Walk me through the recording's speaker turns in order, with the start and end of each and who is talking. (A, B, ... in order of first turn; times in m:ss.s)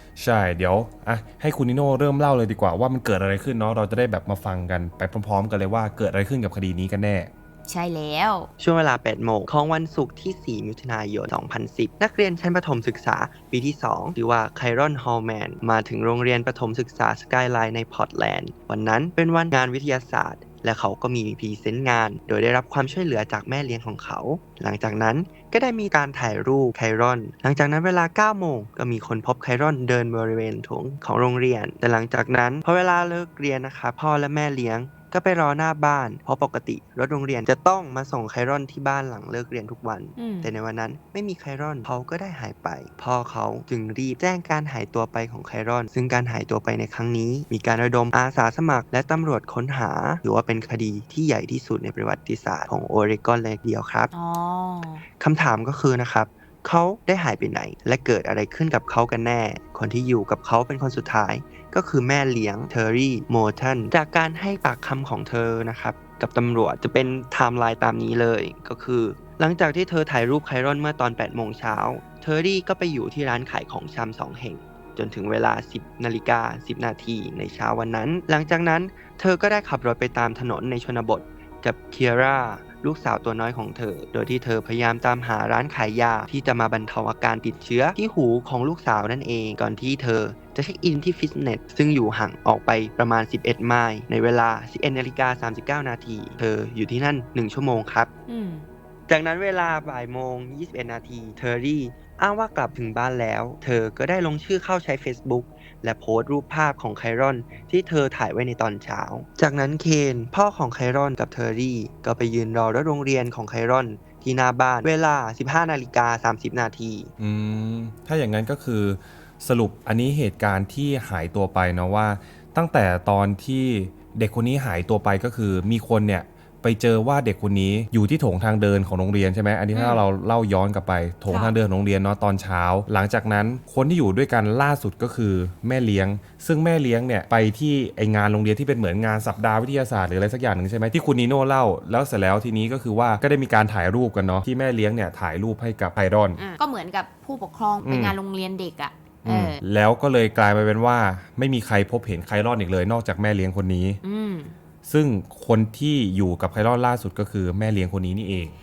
0:00.2-0:07.3 A
0:07.7-0:08.5 B
0:08.6-0:54.1 C
0:40.2-0:40.5 B
0:54.1-0:55.0 B
0:55.2-1:38.1 C
1:38.3-1:38.7 B
1:39.1-1:57.1 C
1:57.2-2:26.4 A
2:09.7-2:10.0 B
2:11.3-2:11.6 B
2:26.4-2:29.6 B
2:27.8-2:28.2 A
2:29.2-2:34.0 A
2:34.0-2:34.6 B
2:34.8-2:38.5 A